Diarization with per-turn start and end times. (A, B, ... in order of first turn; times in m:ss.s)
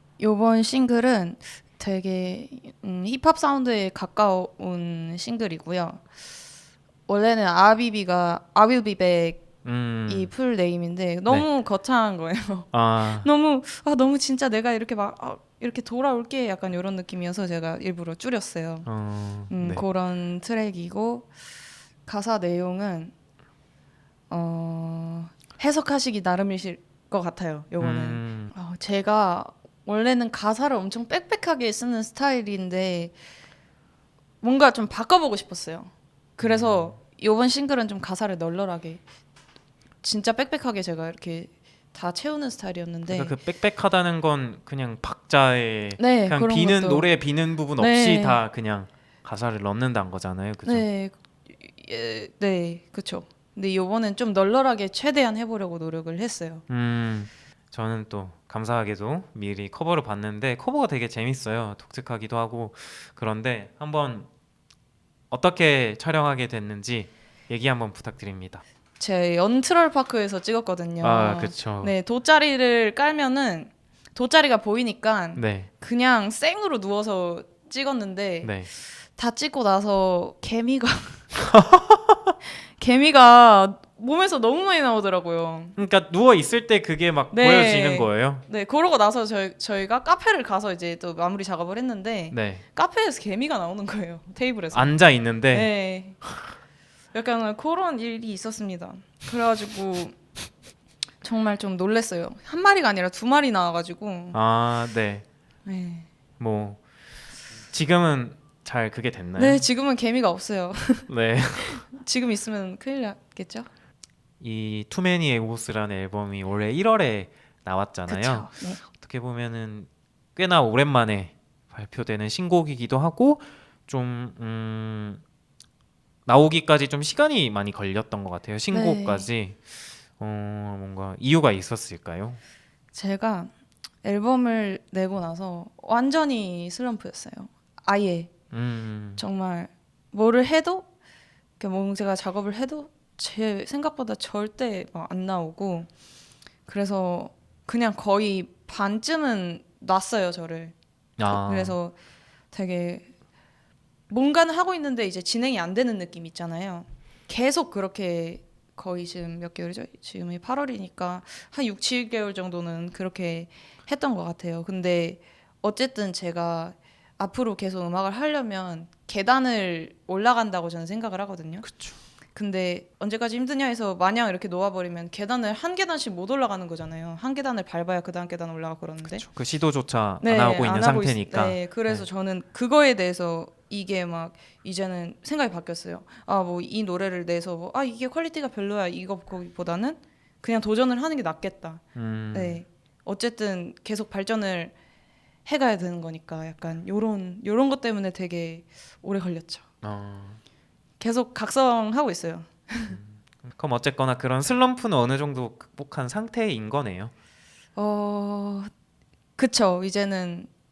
0:00.2-0:06.0 A
0:07.1-0:09.5 A
0:09.6-0:10.3 B
0:10.1-0:18.9 A
0:12.7-0:13.3 B
0:18.8-0:19.8 B
0:19.5-0:21.3 A
0:22.0-0:23.1 A
0:24.3-0:33.1 A
0:27.8-0:28.5 B
0:34.4-0:39.0 A
0:36.4-0:37.0 B
0:40.0-0:43.3 A
0:43.0-0:50.9 B
0:46.0-0:47.1 A
0:47.8-0:48.4 A
0:50.6-0:56.6 A
0:56.7-1:04.3 B
1:05.3-1:08.6 B
1:09.0-1:21.3 A
1:11.0-1:11.9 B
1:15.4-1:15.7 B
1:18.4-1:18.7 B
1:21.5-1:22.3 B
1:22.8-1:25.8 A
1:25.8-1:28.4 B
1:27.3-1:35.0 A
1:32.3-1:32.6 B
1:34.7-1:35.7 B
1:35.5-1:36.2 A
1:37.1-1:40.2 A
1:41.2-1:44.4 A
1:44.3-1:45.2 B
1:45.6-1:46.1 A
1:46.4-1:46.8 B
1:47.7-1:49.6 B
1:49.4-1:51.1 A
1:51.1-1:51.8 B
1:51.6-1:53.7 A
1:54.4-2:05.2 B
1:58.1-1:58.8 A
2:06.2-2:09.6 B
2:08.7-2:09.3 A
2:10.2-2:12.4 B
2:12.9-2:13.5 A
2:14.0-2:18.3 A
2:18.5-2:19.2 B
2:19.2-2:20.9 A
2:21.6-2:25.9 A
2:26.7-2:32.0 A
2:31.2-2:31.8 B
2:32.5-2:33.1 A
2:34.1-2:51.6 A
2:51.6-2:52.0 B
2:52.3-2:59.2 A
2:59.0-3:02.0 B
3:00.2-3:14.7 A
3:11.9-3:12.6 B
3:15.4-3:19.6 A
3:19.8-3:20.4 B
3:21.0-3:23.0 A
3:22.9-3:27.1 B
3:27.7-3:28.7 A
3:29.4-3:30.5 A